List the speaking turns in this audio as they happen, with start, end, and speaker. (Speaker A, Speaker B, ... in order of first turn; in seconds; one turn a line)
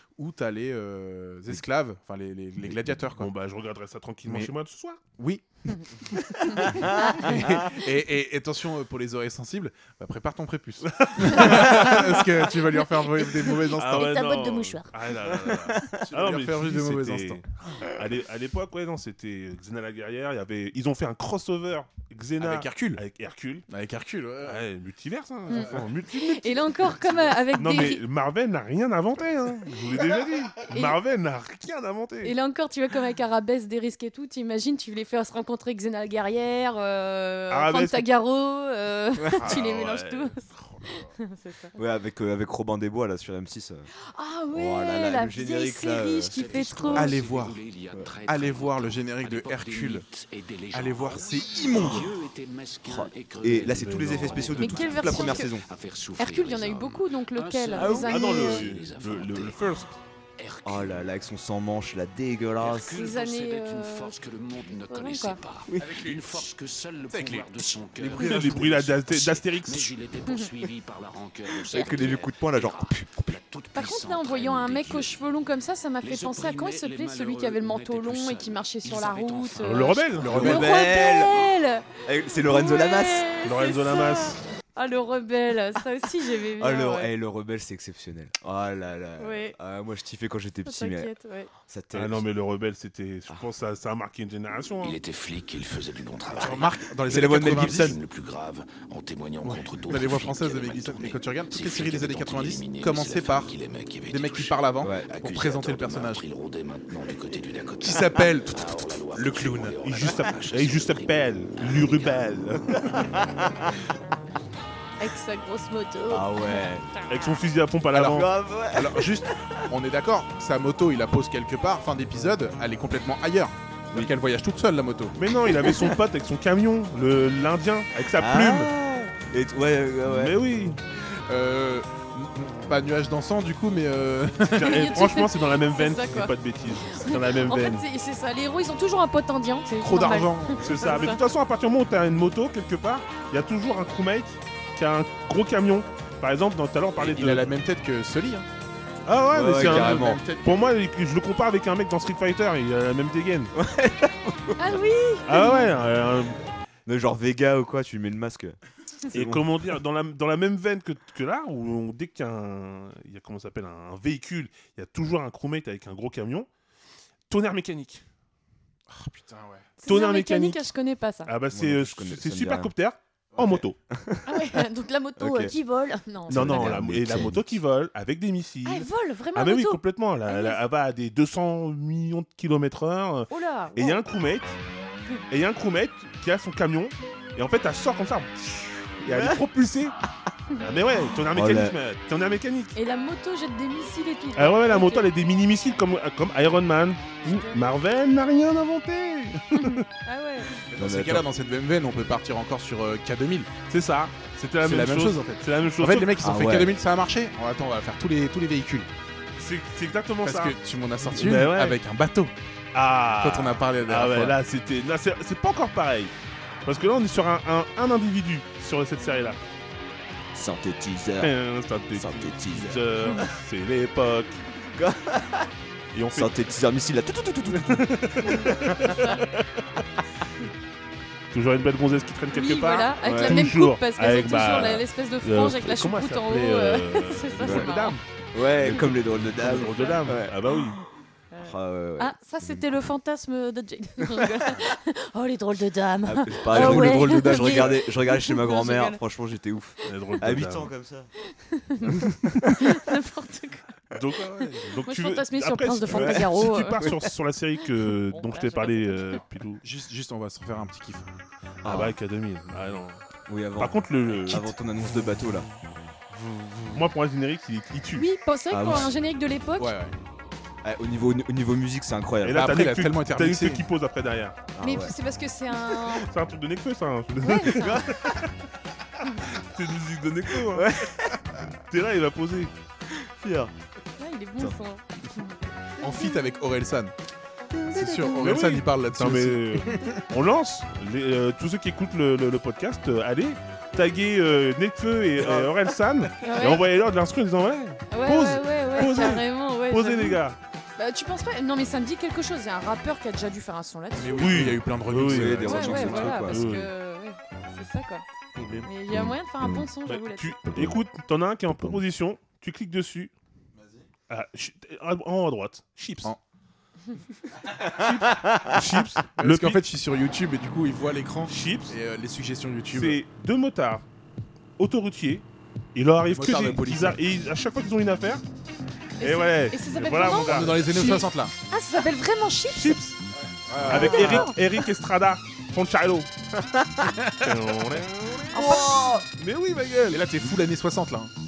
Speaker A: 0.2-3.3
Speaker B: 3.2-5.0
Speaker A: 4.3-4.5
Speaker A: 5.2-14.3
Speaker C: 6.5-7.7
Speaker D: 7.0-7.6
Speaker B: 10.9-12.0
Speaker D: 13.6-14.9
Speaker B: 13.7-23.7
Speaker A: 15.5-17.4
Speaker C: 15.5-16.0
Speaker A: 22.4-23.0
Speaker A: 23.7-24.6
Speaker B: 24.4-26.8
Speaker D: 25.5-28.0
Speaker A: 25.5-25.9
Speaker A: 27.1-27.4
Speaker B: 27.5-32.4
Speaker D: 30.7-31.0
Speaker D: 32.2-41.8
Speaker B: 37.5-38.1
Speaker C: 39.2-39.6
Speaker B: 39.4-41.1
Speaker C: 41.8-43.9
Speaker D: 44.1-47.1
Speaker C: 44.5-46.9
Speaker E: 46.2-59.9
Speaker A: 46.9-47.6
Speaker A: 48.3-50.1
Speaker A: 50.7-52.1
Speaker C: 52.8-55.6
Speaker B: 53.7-54.9
Speaker D: 54.6-55.5
Speaker D: 56.2-58.7
Speaker C: 57.7-58.6
Speaker B: 57.9-59.9
Speaker E: 60.4-61.1
Speaker C: 60.6-63.0
Speaker E: 62.6-75.1
Speaker D: 62.9-64.1
Speaker D: 64.9-65.4
Speaker A: 65.8-66.5
Speaker A: 67.1-69.0
Speaker B: 68.2-70.0
Speaker C: 71.5-73.1
Speaker D: 71.7-72.0
Speaker D: 73.8-87.1
Speaker E: 76.0-80.3
Speaker B: 79.6-80.4
Speaker A: 80.2-80.8
Speaker C: 80.3-83.3
Speaker B: 83.4-84.4
Speaker C: 86.6-91.1
Speaker D: 89.2-89.6
Speaker D: 90.7-91.5
Speaker C: 91.7-92.2
Speaker B: 91.9-95.0
Speaker E: 94.8-112.1
Speaker A: 96.3-98.0
Speaker C: 97.1-97.8
Speaker A: 99.4-103.6
Speaker A: 104.1-106.2
Speaker C: 104.8-105.1
Speaker A: 107.8-110.1
Speaker B: 109.8-113.1
Speaker C: 112.8-113.8
Speaker D: 115.0-117.4
Speaker C: 116.1-116.9
Speaker B: 117.1-118.3
Speaker A: 117.9-125.2
Speaker C: 118.0-119.7
Speaker B: 125.2-128.7
Speaker C: 125.4-126.0
Speaker C: 128.2-130.4
Speaker B: 130.0-130.8
Speaker A: 131.1-134.9
Speaker B: 134.5-137.9
Speaker D: 134.6-141.2
Speaker A: 139.8-140.9
Speaker B: 140.6-147.5
Speaker A: 147.0-148.5
Speaker B: 149.1-153.5
Speaker C: 149.3-150.2
Speaker A: 149.5-150.7
Speaker C: 153.5-154.8
Speaker D: 154.6-155.7
Speaker B: 155.3-156.4
Speaker C: 156.9-158.6
Speaker C: 159.1-159.8
Speaker B: 159.1-166.5
Speaker B: 167.3-168.0
Speaker A: 168.9-169.7
Speaker D: 169.8-171.3
Speaker B: 169.9-170.7
Speaker B: 171.2-173.8
Speaker C: 171.5-172.7
Speaker A: 173.3-173.6
Speaker C: 173.4-174.6
Speaker D: 174.3-176.8
Speaker C: 175.2-175.6
Speaker C: 176.3-177.6
Speaker B: 176.3-184.6
Speaker D: 178.7-180.6
Speaker D: 183.3-184.0
Speaker B: 185.3-190.0
Speaker C: 189.0-189.4
Speaker B: 190.6-192.8
Speaker C: 191.3-191.8
Speaker D: 192.8-195.1
Speaker B: 194.4-199.8
Speaker D: 197.2-197.7
Speaker D: 199.5-200.6
Speaker A: 200.7-203.5
Speaker C: 200.7-201.2
Speaker B: 203.7-206.2
Speaker A: 204.6-208.9
Speaker C: 206.2-206.8
Speaker B: 209.4-211.8
Speaker A: 210.2-212.3
Speaker B: 212.7-216.1
Speaker A: 213.2-214.4
Speaker B: 216.7-219.4
Speaker C: 220.3-221.3
Speaker B: 221.2-224.4
Speaker C: 221.9-223.3
Speaker C: 224.7-225.5
Speaker B: 225.9-226.3
Speaker C: 226.1-229.0
Speaker B: 227.5-229.5
Speaker D: 228.2-229.3
Speaker B: 231.3-240.8
Speaker D: 232.3-238.0
Speaker C: 233.0-233.5
Speaker C: 237.4-237.8
Speaker C: 238.3-240.6
Speaker D: 239.4-240.0
Speaker D: 241.3-249.0
Speaker C: 241.4-242.7
Speaker C: 246.0-251.1
Speaker A: 246.5-247.8
Speaker B: 249.8-250.7
Speaker D: 251.4-253.8
Speaker C: 251.9-252.7
Speaker B: 253.9-259.6
Speaker D: 254.8-256.8
Speaker C: 255.9-257.1
Speaker D: 258.1-259.2
Speaker A: 259.6-261.1
Speaker C: 261.6-262.0
Speaker B: 261.6-263.0
Speaker C: 263.3-265.5
Speaker B: 263.6-264.6
Speaker B: 266.4-268.1
Speaker D: 268.0-269.8
Speaker C: 268.5-268.9
Speaker A: 269.6-270.0
Speaker C: 270.6-272.6
Speaker B: 272.2-274.4
Speaker A: 272.3-273.6
Speaker C: 274.5-274.9
Speaker D: 274.6-276.1
Speaker B: 275.9-278.3
Speaker D: 277.2-277.9
Speaker C: 277.4-278.3
Speaker B: 279.2-280.8
Speaker C: 280.4-281.4
Speaker B: 281.7-282.5
Speaker C: 282.9-283.5
Speaker D: 284.0-285.4
Speaker A: 285.8-286.9
Speaker C: 287.5-288.3
Speaker A: 287.7-290.0
Speaker B: 288.2-300.4
Speaker A: 295.2-295.5
Speaker D: 296.2-296.6
Speaker D: 297.9-300.2
Speaker D: 300.8-304.6
Speaker A: 304.0-306.2
Speaker B: 304.2-306.7
Speaker C: 305.0-306.4
Speaker D: 305.5-308.1
Speaker B: 308.4-308.7
Speaker C: 308.5-309.7
Speaker D: 308.6-310.4
Speaker B: 309.9-313.1
Speaker C: 310.5-310.8
Speaker A: 313.6-313.8
Speaker B: 314.1-316.1
Speaker A: 317.6-318.0
Speaker B: 317.6-319.6
Speaker C: 318.1-318.6
Speaker A: 319.2-323.0
Speaker B: 321.3-321.7
Speaker B: 322.7-323.9
Speaker B: 324.6-328.2
Speaker A: 326.1-327.0
Speaker D: 329.0-332.8
Speaker B: 329.0-331.0
Speaker A: 330.1-331.3
Speaker B: 332.5-333.0
Speaker A: 333.5-334.3
Speaker C: 333.7-334.0
Speaker D: 333.7-334.4
Speaker B: 333.7-336.1
Speaker C: 336.3-337.0
Speaker A: 336.8-337.4
Speaker B: 337.2-340.0
Speaker D: 338.3-339.0
Speaker C: 338.3-339.1
Speaker A: 339.9-341.1